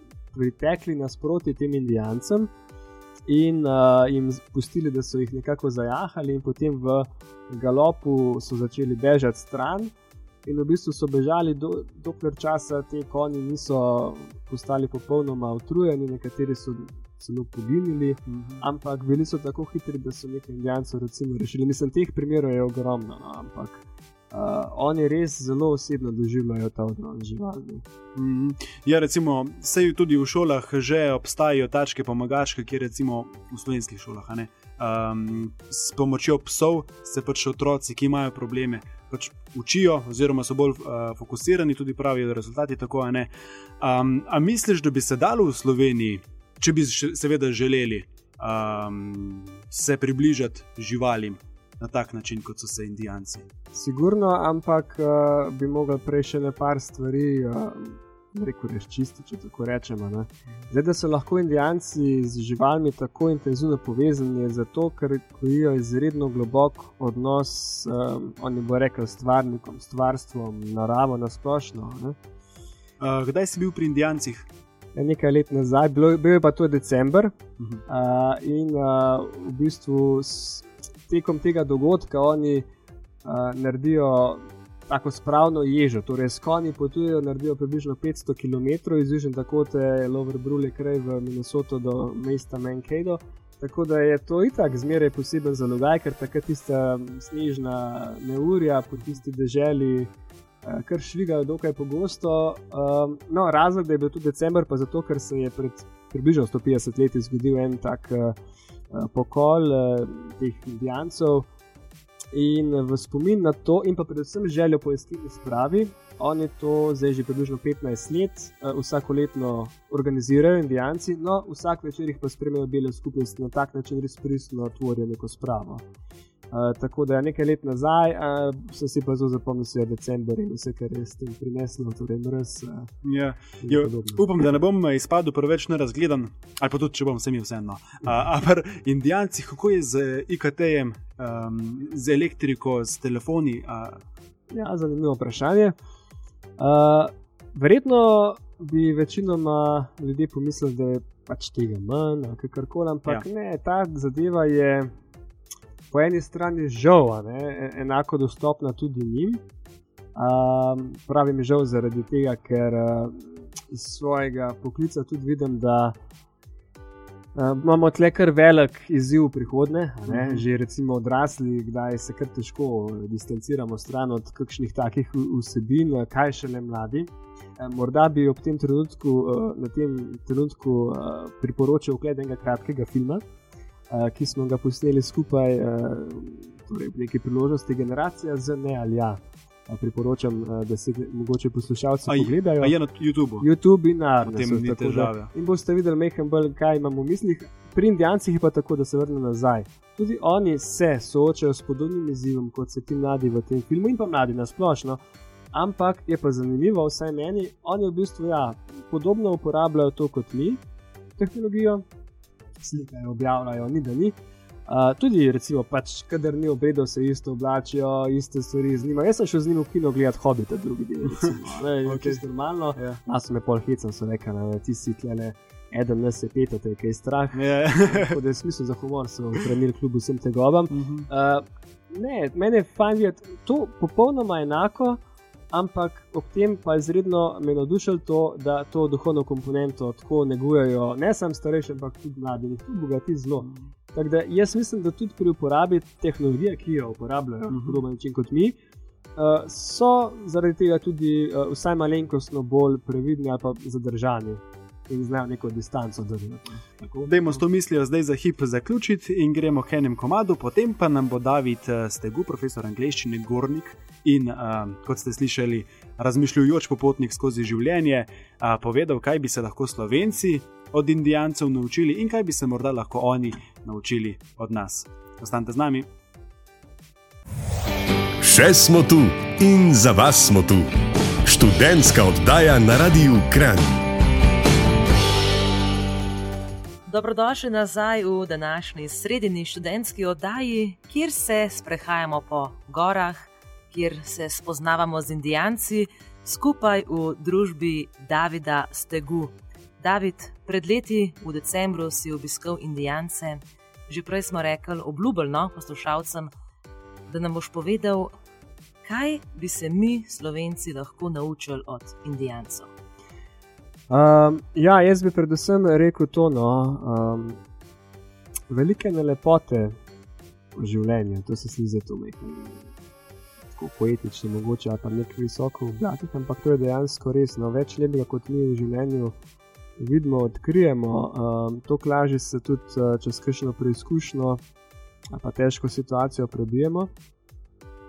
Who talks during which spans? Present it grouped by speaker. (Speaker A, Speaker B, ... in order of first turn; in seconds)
Speaker A: 0.3-2.5, 3.3-9.9, 10.4-27.8, 53.7-72.2, 74.9-77.3, 77.9-82.7, 83.2-108.3, 108.9-111.5, 112.3-125.8, 126.5-132.9, 133.6-134.2, 144.5-145.7, 146.6-154.9, 155.9-159.4, 160.1-166.0, 167.3-183.2, 183.9-192.8, 193.4-205.0, 205.5-210.6, 211.2-211.8, 212.6-214.2, 214.7-235.0, 235.5-248.6, 249.2-257.1, 313.9-317.4, 318.5-319.7, 320.5-322.7, 323.5-329.1, 329.8-334.4, 335.1-336.9
Speaker B: 18.3-18.6, 28.1-43.3, 43.8-53.5, 73.0-74.5, 133.0-144.0, 170.1-170.4, 192.1-193.5, 194.2-195.3, 221.0-222.2, 222.7-223.0, 227.3-228.2, 230.7-231.1, 247.5-247.8, 257.0-275.9
Speaker C: 278.2-280.7, 281.2-283.8
Speaker D: 286.9-306.3, 307.1-308.1, 308.8-312.7